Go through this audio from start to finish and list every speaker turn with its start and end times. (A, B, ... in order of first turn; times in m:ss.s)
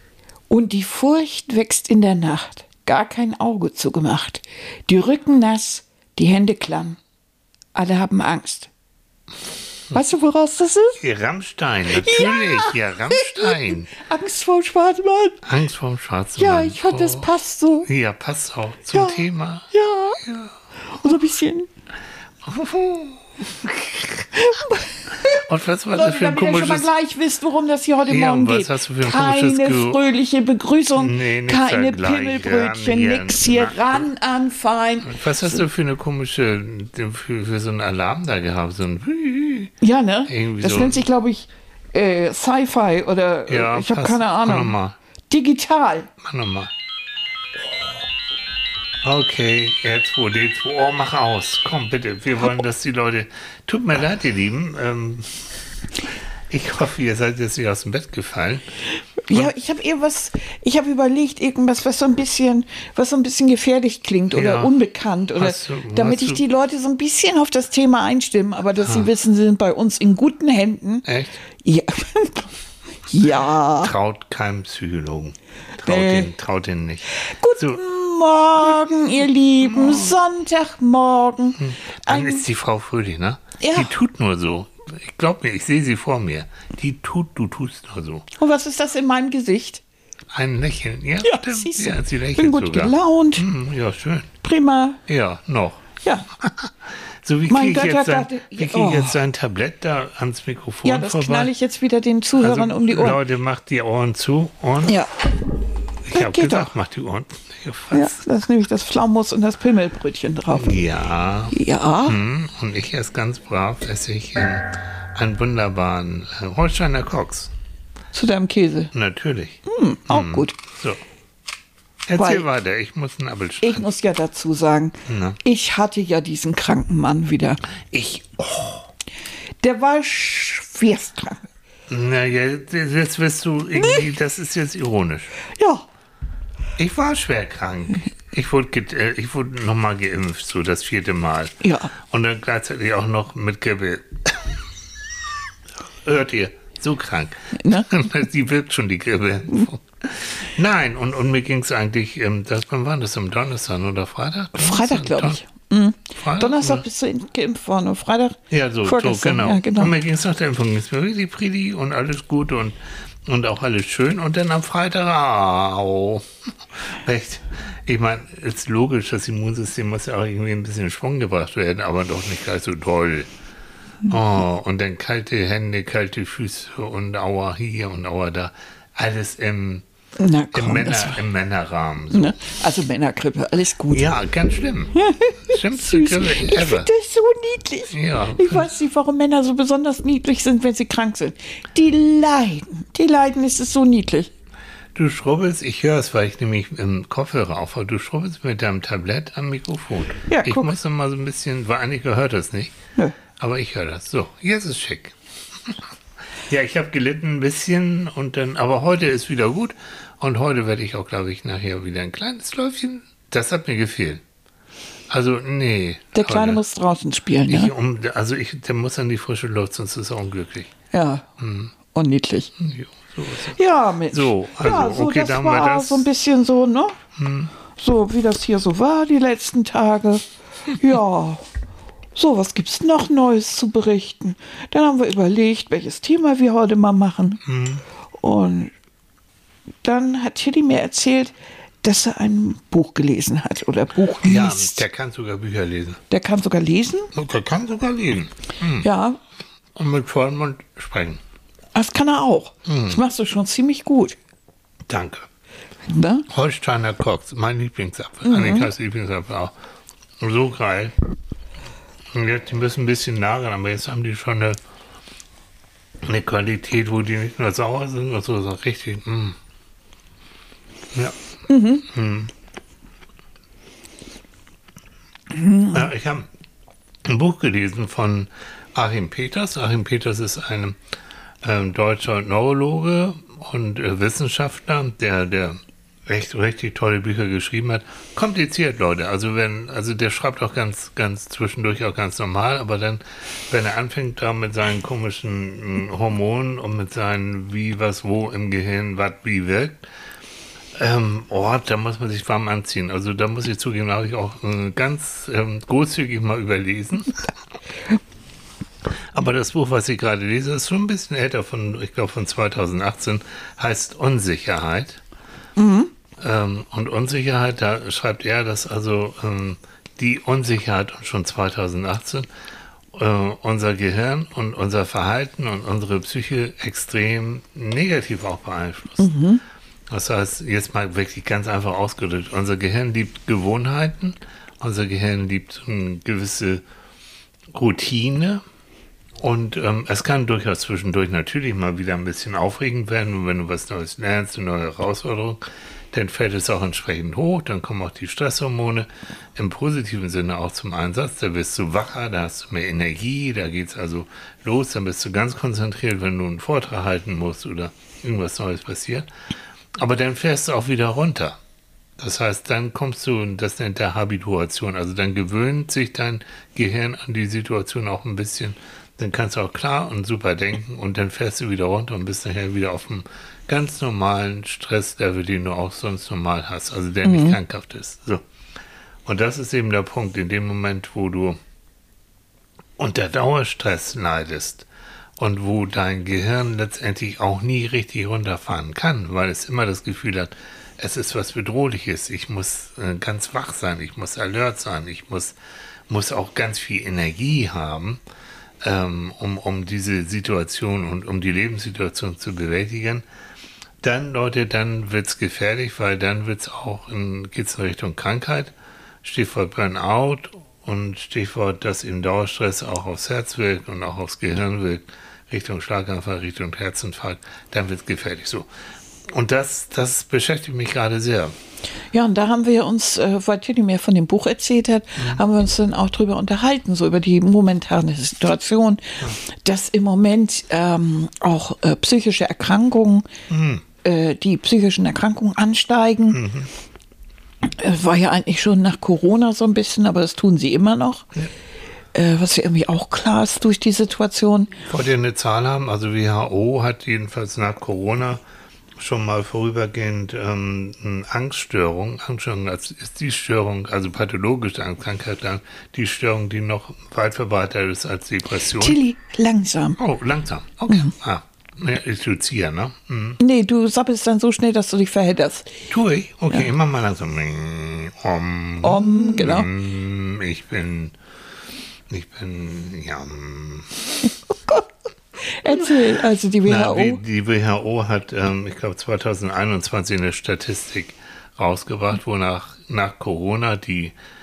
0:00.5-0:07.0 A
0:07.7-0:08.7 A
0:09.9-0:11.0 A
0:11.0-0:13.9 B
0:11.9-0:15.4 A
0:15.4-0:17.3 B
0:16.4-0:17.9 A
0:17.8-0:19.7 B
0:18.9-0:20.2 A
0:20.2-0:20.5 B
0:20.8-0:21.7 A
0:22.4-0:24.3 B
0:24.3-0:35.6 A
0:25.1-0:26.9 B
0:28.1-0:30.0 B
0:30.9-0:34.1 B
0:35.0-0:39.7 B
0:39.8-0:44.8 A
0:40.3-0:41.0 B
0:43.5-0:45.0 B
0:45.3-0:46.1 A
0:46.2-0:46.7 B
0:49.0-0:58.6 B
0:59.2-1:11.0 A
1:04.3-1:04.7 B
1:05.3-1:06.4 B
1:11.0-1:11.4 B
1:11.6-1:12.5 A
1:13.1-1:13.9 A
1:13.8-1:17.8 B
1:15.8-1:16.3 A
1:17.1-1:22.4 A
1:18.6-1:19.0 B
1:19.6-1:20.2 B
1:21.6-1:28.2 B
1:23.6-1:23.9 A
1:28.4-1:29.8 A
1:30.3-1:34.3 B
1:31.2-1:33.5 A
1:34.4-1:35.0 A
1:35.1-1:35.8 B
1:36.0-1:36.3 A
1:36.4-1:41.5 B
1:37.5-1:39.2 A
1:40.8-1:43.2 A
1:42.4-1:45.0 B
1:44.8-1:45.2 A
1:46.0-1:48.2 B
1:46.1-1:46.7 A
1:47.9-1:50.8 A
1:50.5-1:57.5 B
1:51.5-1:52.2 A
1:58.1-1:58.9 A
1:58.9-2:01.0 B
1:59.7-2:00.6 A
2:02.1-2:03.9 B
2:02.2-2:02.4 A
2:03.6-2:07.6 A
2:05.1-2:05.4 B
2:07.9-2:08.9 B
2:09.6-2:11.4 A
2:11.9-2:15.4 B
2:15.6-2:15.8 A
2:16.8-2:24.6 B
2:21.6-2:21.9 A
2:25.9-2:35.4 B
2:27.5-2:27.9 A
2:34.6-2:40.0 A
2:36.2-2:36.8 B
2:38.5-2:53.3 B
2:54.1-2:59.8 B
3:00.2-3:01.2 A
3:00.5-3:02.4 B
3:02.1-3:04.2 A
3:03.9-3:04.9 B
3:04.9-3:14.3 A
3:05.5-3:06.9 B
3:07.9-3:08.7 B
3:14.9-3:22.7 B
3:20.3-3:20.7 A
3:23.4-3:25.9 B
3:26.5-3:34.2 B
3:35.1-3:36.6 B
3:36.1-3:37.7 A
3:37.5-3:40.7 B
3:40.9-3:41.3 A
3:41.4-3:41.7 B
3:41.9-3:42.5 A
3:42.6-3:43.6 B
3:43.5-3:47.0 A
3:44.1-3:46.0 B
3:47.2-3:47.5 B
3:47.8-3:51.4 A
3:52.1-3:57.4 A
3:57.4-3:57.8 B
3:58.2-3:58.7 A
3:59.8-4:04.8 A
4:04.2-4:06.0 B
4:06.1-4:07.1 A
4:07.1-4:08.9 B
4:08.8-4:09.2 A
4:09.7-4:11.2 B
4:11.7-4:14.2 A
4:12.7-4:13.0 B
4:14.9-4:15.3 B
4:15.8-4:16.3 A
4:16.3-4:19.5 B
4:18.2-4:18.7 A
4:20.2-4:21.0 B
4:22.1-4:24.6 B
4:26.0-4:29.4 B
4:31.5-4:31.8 A
4:31.8-4:32.3 B
4:35.3-4:35.9 A
4:35.7-4:36.3 B
4:37.0-4:40.8 B
4:41.4-4:59.8 B
5:00.7-5:07.3 B
5:09.1-5:15.0 B
5:15.6-5:15.9 A
5:16.2-5:22.3 B
5:22.9-5:29.1 B
5:29.0-5:29.4 A
5:29.9-5:36.6 B
5:37.5-5:38.4 B
5:39.2-5:59.1 B
5:59.8-6:01.4 B
6:02.0-6:18.2 B
6:17.0-6:17.4 A
6:19.0-6:21.4 B
6:22.8-6:24.7 B
6:25.2-6:35.3 B
6:35.9-6:38.0 B
6:38.6-6:43.0 B
6:43.8-6:58.5 B
6:59.1-7:01.3 B
7:01.9-7:13.1 A
7:13.3-7:13.6 B
7:13.8-7:16.2 A
7:16.1-7:16.5 B
7:17.4-7:21.1 A
7:21.9-7:24.6 A
7:24.7-7:28.2 B
7:28.8-7:38.8 B
7:38.6-7:39.8 A
7:39.8-7:43.2 B
7:43.2-7:45.5 A
7:45.7-7:50.9 B
7:48.6-7:49.5 A
7:51.9-7:54.1 B
7:54.3-7:54.7 A
7:55.2-7:57.0 A
7:55.5-7:55.8 B
7:56.4-8:03.9 B